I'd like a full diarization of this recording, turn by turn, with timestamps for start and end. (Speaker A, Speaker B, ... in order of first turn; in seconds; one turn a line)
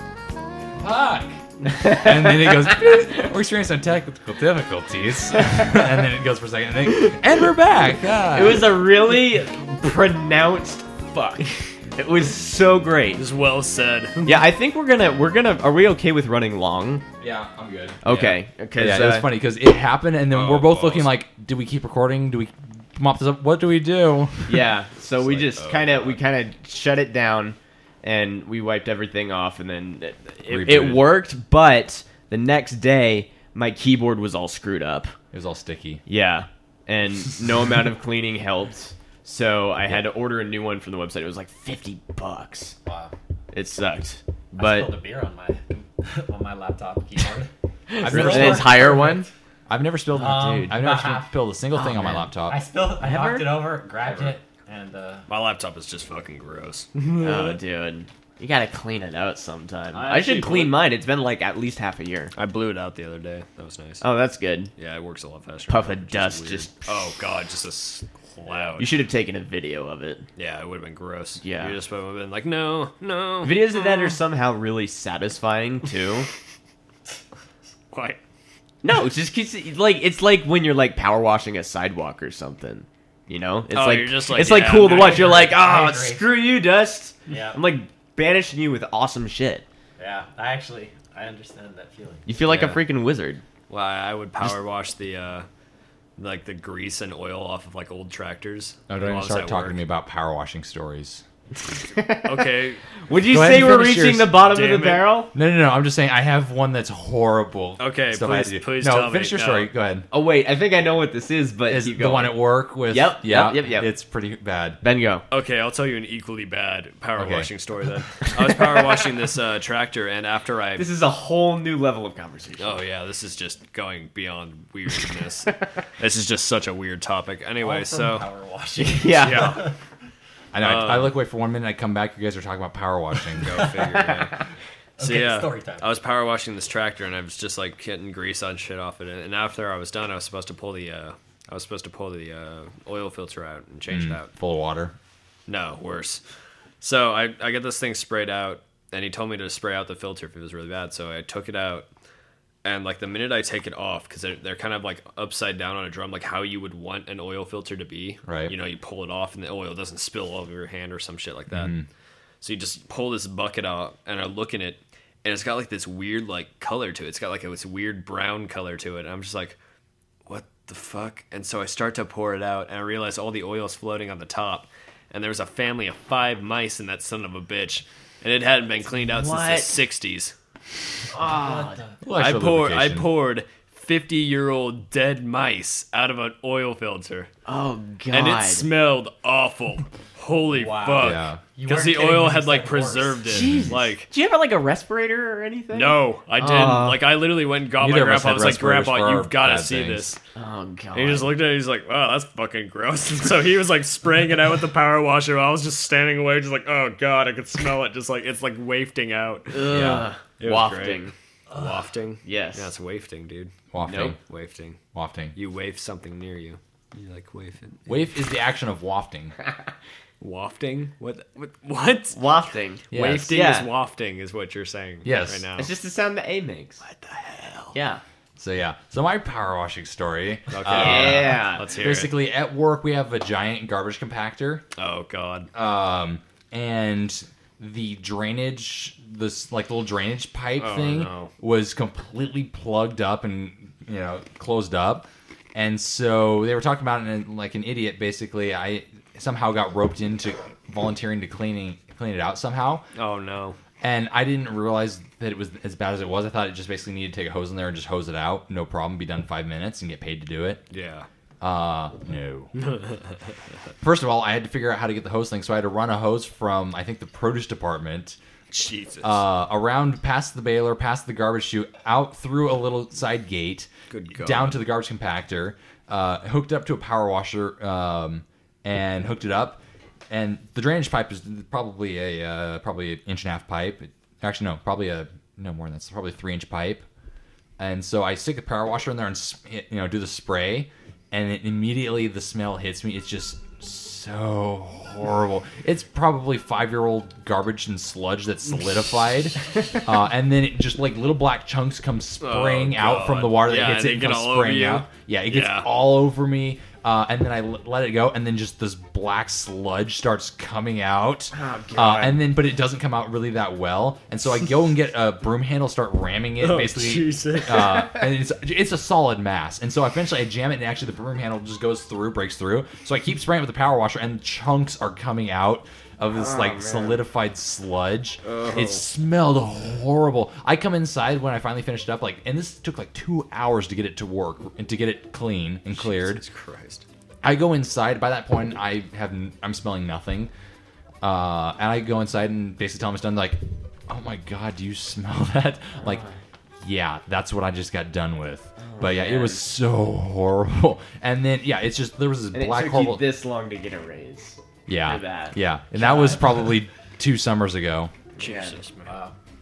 Speaker A: 0.8-8.8
Speaker B: 1.8-2.4
Speaker B: 8.3-13.2
Speaker C: 13.2-14.5
Speaker B: 14.2-17.0
Speaker A: 17.2-18.0
Speaker B: 18.0-19.3
Speaker C: 18.1-18.4
Speaker A: 18.8-24.7
Speaker C: 20.3-21.1
Speaker B: 24.5-35.1
Speaker C: 25.2-26.2
Speaker A: 30.5-31.2
Speaker A: 35.3-36.0
Speaker B: 36.1-42.8
Speaker D: 42.8-43.1
Speaker B: 43.5-44.9
Speaker D: 44.5-47.5
Speaker B: 47.9-49.3
Speaker A: 48.0-48.9
Speaker D: 48.0-49.3
Speaker A: 49.7-52.6
Speaker B: 50.1-50.7
Speaker D: 50.2-51.3
Speaker B: 51.8-52.3
Speaker D: 52.5-55.2
Speaker B: 53.0-53.7
Speaker C: 55.3-57.6
Speaker B: 57.2-62.3
Speaker C: 59.9-60.8
Speaker C: 62.4-64.0
Speaker B: 64.0-64.7
Speaker C: 64.8-68.9
Speaker B: 65.7-66.9
Speaker B: 68.5-70.2
Speaker C: 70.4-73.7
Speaker B: 71.4-71.8
Speaker B: 73.4-76.3
Speaker C: 77.9-78.2
Speaker B: 78.8-89.6
Speaker C: 83.7-85.6
Speaker D: 84.7-86.4
Speaker D: 87.3-87.6
Speaker D: 90.0-92.2
Speaker B: 92.2-93.4
Speaker C: 92.5-92.8
Speaker C: 93.7-95.5
Speaker C: 96.2-99.8
Speaker A: 98.9-101.2
Speaker B: 101.8-102.4
Speaker C: 102.2-102.8
Speaker B: 103.0-105.3
Speaker A: 103.3-104.4
Speaker C: 104.3-105.1
Speaker A: 105.3-110.1
Speaker C: 107.8-109.7
Speaker B: 110.1-113.9
Speaker A: 111.7-114.8
Speaker B: 114.8-115.2
Speaker C: 115.3-120.9
Speaker A: 117.2-117.5
Speaker B: 120.8-122.8
Speaker C: 122.6-128.3
Speaker D: 127.6-129.7
Speaker B: 128.8-129.6
Speaker C: 129.2-129.7
Speaker A: 130.5-133.6
Speaker C: 130.6-131.1
Speaker C: 133.4-134.4
Speaker D: 133.6-134.2
Speaker D: 135.0-136.0
Speaker C: 135.0-144.3
Speaker A: 143.9-144.9
Speaker C: 145.5-146.2
Speaker C: 146.8-151.8
Speaker C: 152.6-161.7
Speaker A: 158.2-158.5
Speaker A: 161.5-161.9
Speaker C: 162.4-169.6
Speaker C: 170.3-180.3
Speaker B: 178.9-179.7
Speaker B: 181.1-181.8
Speaker D: 181.1-181.9
Speaker A: 182.0-183.1
Speaker C: 182.2-187.3
Speaker B: 187.4-188.7
Speaker C: 188.1-194.1
Speaker D: 190.5-193.3
Speaker A: 191.0-191.4
Speaker B: 193.3-197.1
Speaker A: 193.4-193.7
Speaker C: 195.7-200.2
Speaker A: 197.8-200.2
Speaker B: 200.3-201.3
Speaker C: 200.9-213.5
Speaker B: 209.5-211.1
Speaker A: 209.7-210.1
Speaker B: 212.2-212.7
Speaker A: 213.7-214.2
Speaker B: 213.8-214.1
Speaker C: 214.2-214.8
Speaker A: 214.9-215.3
Speaker C: 215.3-217.8
Speaker A: 217.8-219.3
Speaker C: 220.2-222.2
Speaker B: 222.1-223.7
Speaker A: 222.9-223.3
Speaker C: 222.9-225.7
Speaker A: 225.0-225.5
Speaker B: 225.6-226.8
Speaker C: 226.8-227.8
Speaker B: 227.7-228.0
Speaker A: 228.4-234.6
Speaker C: 230.5-232.1
Speaker B: 230.7-231.7
Speaker C: 234.8-235.5
Speaker A: 235.5-252.8
Speaker C: 240.6-241.3
Speaker C: 252.9-253.6
Speaker A: 253.8-260.6
Speaker C: 260.7-261.1
Speaker A: 261.4-262.5
Speaker C: 262.6-263.0
Speaker A: 263.8-268.2
Speaker C: 268.5-269.2
Speaker A: 269.0-286.9
Speaker C: 273.9-274.6
Speaker A: 287.6-336.2
Speaker C: 302.2-305.7
Speaker B: 311.3-312.2
Speaker C: 316.4-317.9
Speaker B: 326.1-327.0
Speaker C: 328.3-328.8
Speaker C: 335.7-336.9
Speaker A: 337.2-340.3
Speaker A: 341.0-346.0
Speaker B: 345.8-346.1
Speaker A: 346.6-353.0
Speaker B: 348.6-349.4
Speaker B: 352.3-356.3
Speaker A: 354.7-357.9
Speaker B: 358.2-358.6
Speaker C: 358.2-358.9
Speaker D: 358.9-359.1